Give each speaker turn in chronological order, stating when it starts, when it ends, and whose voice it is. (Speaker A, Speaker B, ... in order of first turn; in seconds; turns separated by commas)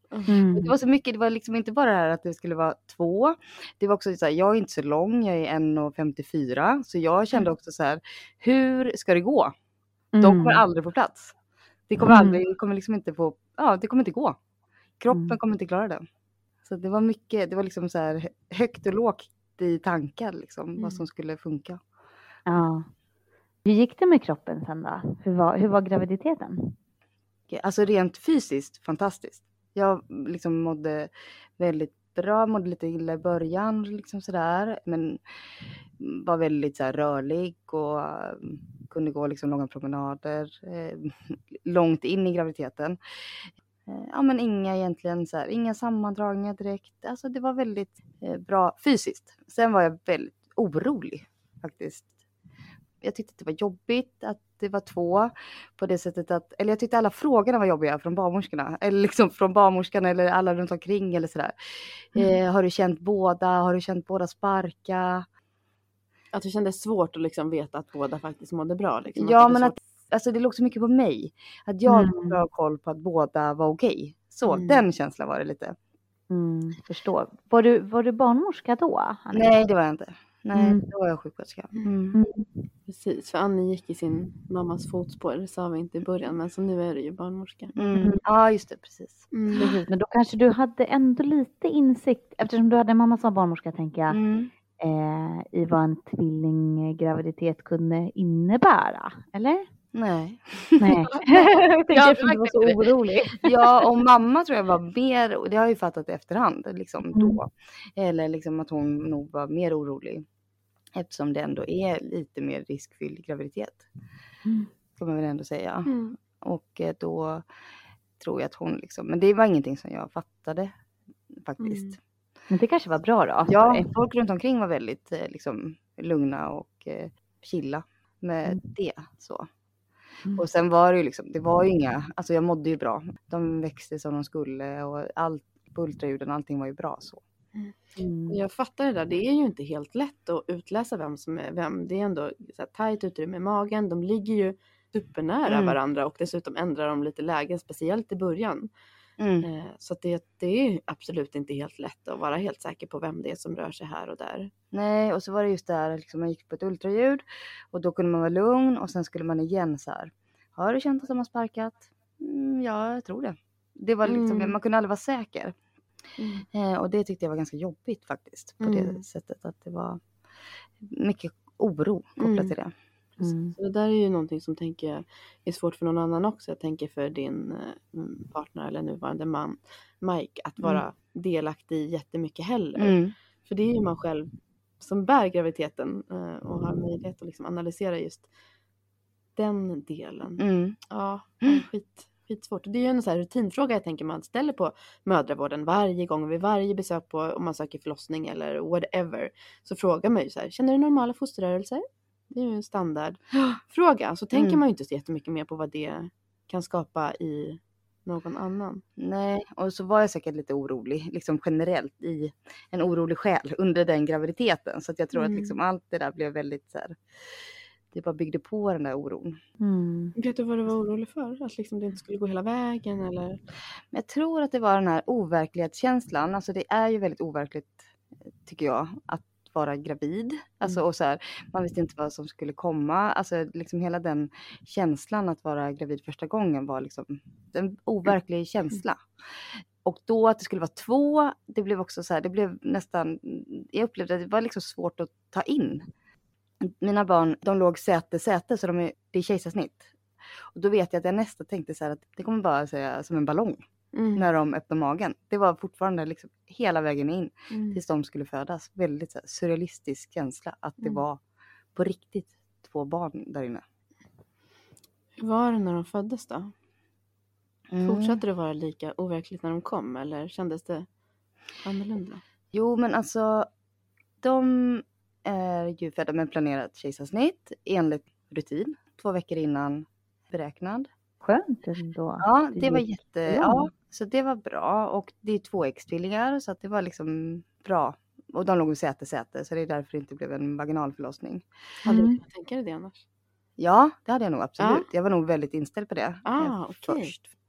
Speaker A: 0.3-0.7, Speaker B: 0.5-9.5, Speaker A: 10.1-10.6, Speaker B: 10.2-11.3, Speaker B: 11.9-14.4, Speaker A: 12.0-12.4, Speaker B: 15.0-16.0, Speaker A: 15.1-15.4, Speaker B: 16.6-21.8, Speaker C: 20.8-21.0, Speaker A: 22.4-22.9, Speaker A: 23.6-26.8, Speaker B: 27.5-35.2, Speaker B: 36.0-52.1, Speaker B: 53.0-65.2, Speaker C: 66.3-69.8, Speaker B: 69.2-75.8, Speaker A: 71.8-72.4, Speaker C: 74.5-74.8, Speaker A: 76.3-79.5, Speaker B: 79.3-82.2, Speaker A: 80.5-80.9, Speaker A: 82.1-82.5, Speaker C: 82.9-87.7, Speaker B: 87.8-89.3, Speaker A: 88.0-88.2, Speaker C: 89.3-89.8, Speaker A: 89.6-94.2, Speaker B: 94.1-94.5, Speaker A: 94.8-99.7, Speaker B: 99.9-102.8, Speaker A: 100.8-103.7, Speaker B: 103.4-110.2, Speaker A: 107.1-107.4, Speaker B: 111.0-113.8, Speaker B: 115.0-117.5, Speaker C: 115.8-116.2, Speaker B: 118.2-120.7, Speaker B: 121.3-122.0, Speaker C: 121.6-122.0, Speaker A: 122.5-123.9, Speaker B: 123.5-129.5, Speaker B: 130.3-137.2, Speaker A: 138.0-138.4, Speaker C: 138.3-148.7, Speaker B: 145.5-145.8, Speaker B: 149.2-149.5, Speaker C: 149.4-154.5, Speaker B: 154.7-165.6, Speaker C: 164.0-164.5, Speaker C: 166.2-166.4, Speaker B: 166.5-170.0, Speaker C: 168.6-169.0, Speaker B: 170.8-172.7, Speaker C: 172.2-172.5, Speaker A: 173.2-173.5, Speaker C: 173.5-188.3, Speaker B: 182.8-183.1, Speaker C: 189.3-208.8, Speaker B: 190.4-190.8, Speaker B: 204.3-204.6, Speaker B: 209.0-217.4, Speaker C: 215.1-215.6, Speaker B: 217.9-219.4, Speaker A: 219.6-220.1, Speaker C: 220.2-223.4, Speaker B: 223.9-227.8, Speaker B: 228.4-239.1, Speaker B: 239.8-245.8, Speaker B: 246.6-249.9, Speaker B: 250.5-261.2, Speaker C: 253.9-254.3, Speaker C: 257.5-257.8, Speaker B: 261.7-263.6, Speaker C: 265.2-266.5, Speaker B: 267.7-268.2, Speaker C: 267.8-270.9, Speaker C: 271.6-272.2, Speaker B: 272.5-273.5, Speaker B: 274.2-280.9, Speaker A: 281.2-283.7, Speaker B: 282.2-291.4, Speaker C: 291.8-293.0, Speaker A: 291.9-292.2, Speaker B: 293.6-297.2, Speaker C: 294.6-294.9, Speaker C: 296.2-297.1